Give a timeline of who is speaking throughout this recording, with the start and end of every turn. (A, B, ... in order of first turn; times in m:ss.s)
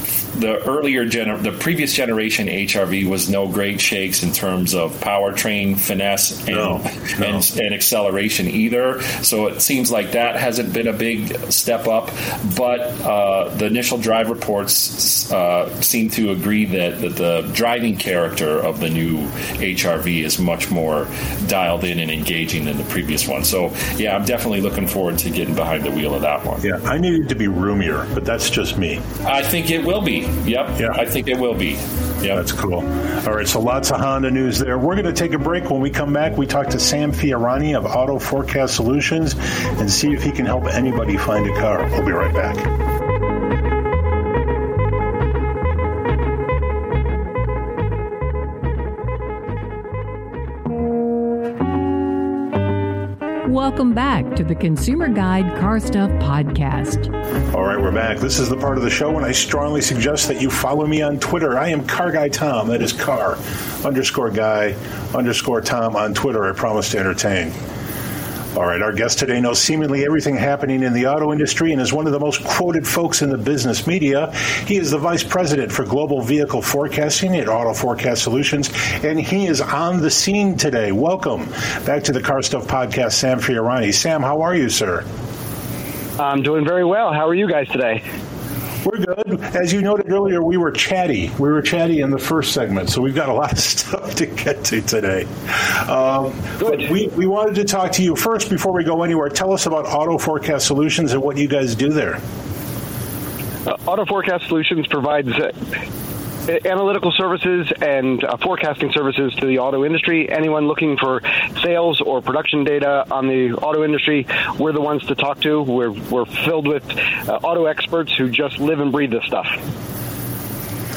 0:00.3-0:26.6 A
0:06.5-0:07.4 B
0:26.6-0:29.0 B
0:29.2-0:32.4 A
0:32.3-0:42.7 B
0:53.4-0:57.1 C
0:57.5-1:07.6 B
1:08.6-1:25.0 B
1:26.2-1:28.0 D
1:28.8-1:42.2 B
1:43.6-1:45.6 D
1:46.5-1:59.6 D